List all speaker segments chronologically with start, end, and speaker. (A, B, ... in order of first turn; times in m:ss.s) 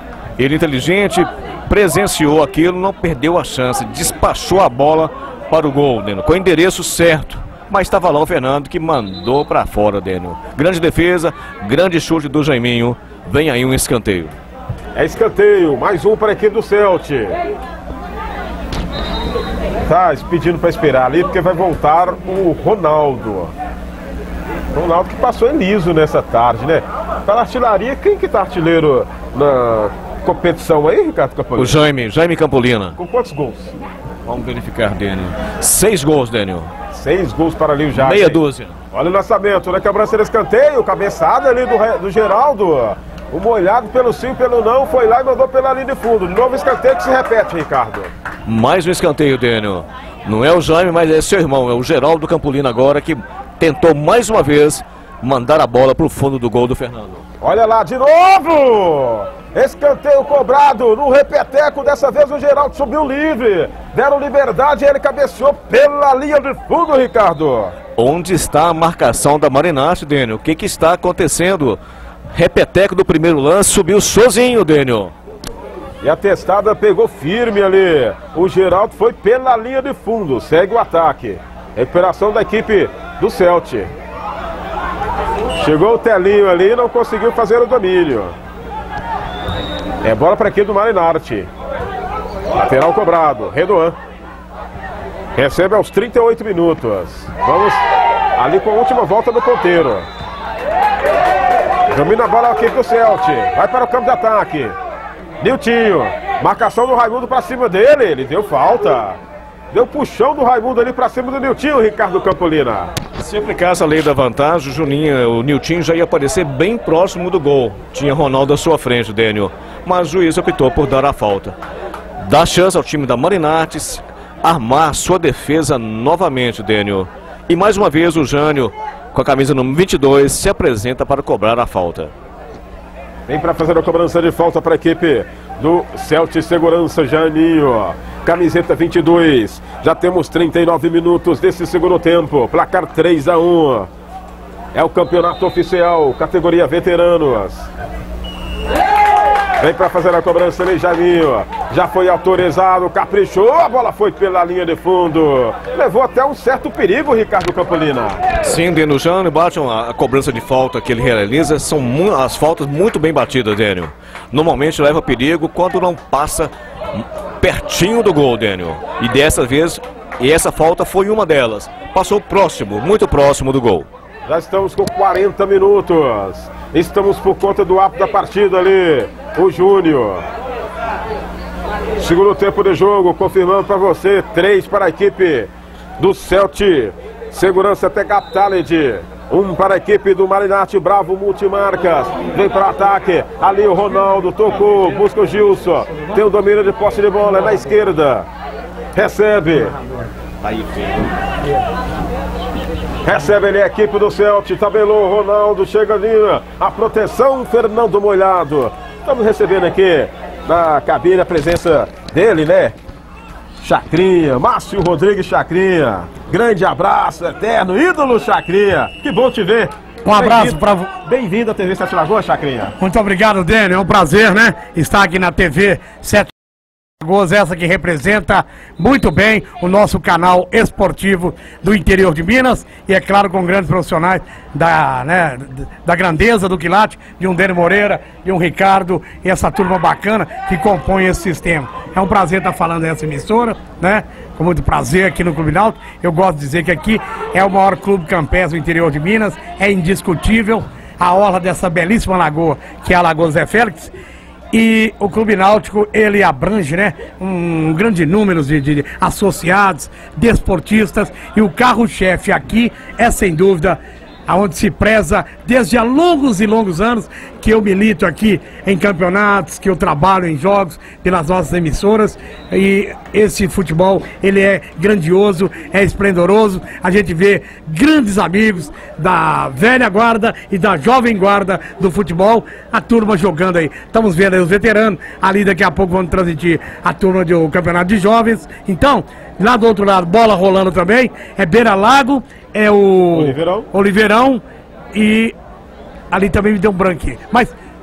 0:00.4-0:14.4 A
0:15.0-0:17.4 B
0:19.9-0:23.5 B
0:24.7-0:31.8 B
0:31.6-0:33.0 A
0:33.0-0:33.8 B
0:34.2-0:36.7 A
0:36.9-0:38.4 B
0:37.9-0:38.8 A
0:38.9-0:48.1 B
0:48.5-0:57.2 A
0:57.4-1:07.8 B
1:08.0-1:11.8 A
1:12.3-1:15.1 A
1:16.0-1:23.9 B
1:25.6-1:28.4 B
1:30.0-1:31.5 B
1:32.5-1:34.0 B
1:35.4-1:37.8 B
1:38.4-1:40.1 B
1:41.9-1:44.8 B
1:45.4-1:49.2 B
1:49.7-1:52.9 B
1:53.2-2:01.6 A
2:02.2-2:12.1 A
2:13.3-2:23.9 B
2:24.7-2:27.7 B
2:29.6-2:38.3 B
2:38.4-2:53.9 A
2:54.3-3:00.2 B
3:02.0-3:18.3 B
3:19.0-3:19.7 B
3:20.4-3:21.1 A
3:23.0-3:32.8 B
3:33.6-3:42.7 B
3:40.1-3:40.9 C
3:42.8-3:46.3 C
3:47.0-4:13.9 C
4:14.5-4:54.4 C
4:53.1-4:53.7 B
4:54.9-4:55.4 C
4:56.1-4:57.5 C